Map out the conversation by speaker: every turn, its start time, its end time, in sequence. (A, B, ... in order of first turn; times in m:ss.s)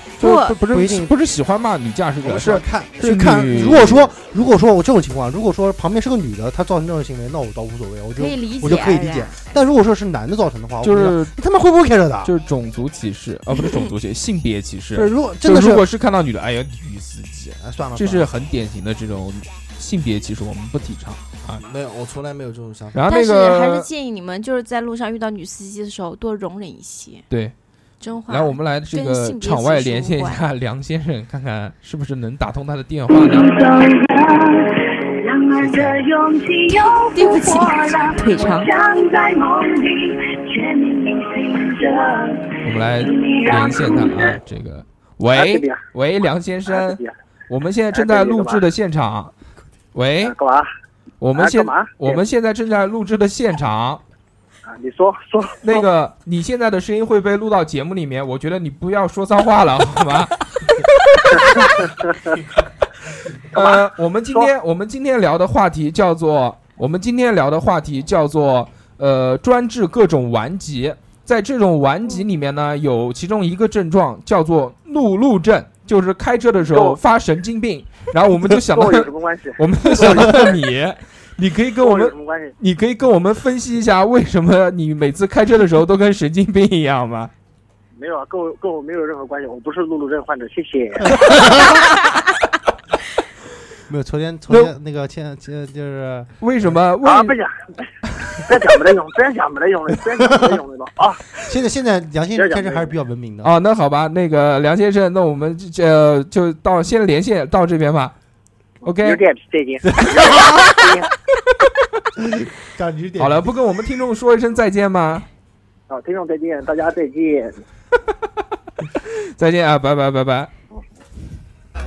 0:00.2-0:04.1 A
0:00.2-0:00.6 B
0:00.7-0:01.1 C
0:02.2-0:03.0 D
0:03.0-0:12.3 C
0:08.2-0:09.5 B
0:10.8-0:11.3 A
0:12.2-0:21.6 A
0:14.9-0:15.8 C
0:17.6-0:18.3 C
0:21.5-0:23.0 D
0:22.9-0:23.9 A
0:23.1-0:27.2 B
0:28.0-0:30.4 B
0:28.3-0:33.5 A
0:33.1-0:44.4 E
0:35.7-0:35.9 C
0:36.7-0:38.7 B
0:42.6-0:49.3 A
0:45.3-0:45.8 F
0:46.7-0:47.1 F
0:47.9-0:48.6 F
0:49.9-0:50.3 A
0:50.2-0:50.7 F
0:51.2-0:54.0 A
0:51.3-0:52.2 F
0:54.7-0:55.8 F
0:55.6-1:01.8 A
1:01.3-1:02.4 F
1:03.5-1:04.5 F
1:03.5-1:27.3 A
1:16.6-1:17.0 F
1:18.6-1:20.6 F
1:21.8-1:22.5 F
1:28.0-1:31.4 F
1:33.9-1:36.7 C
1:36.4-1:37.4 A
1:37.0-1:37.7 F
1:38.4-1:41.2 F
1:41.4-1:43.5 C
1:42.3-1:42.9 F
1:43.4-1:48.1 A
1:48.8-1:49.2 A
1:49.0-1:51.1 F
1:52.2-1:53.5 C
1:53.2-1:55.2 A
1:55.9-1:57.6 F
1:59.3-2:00.5 A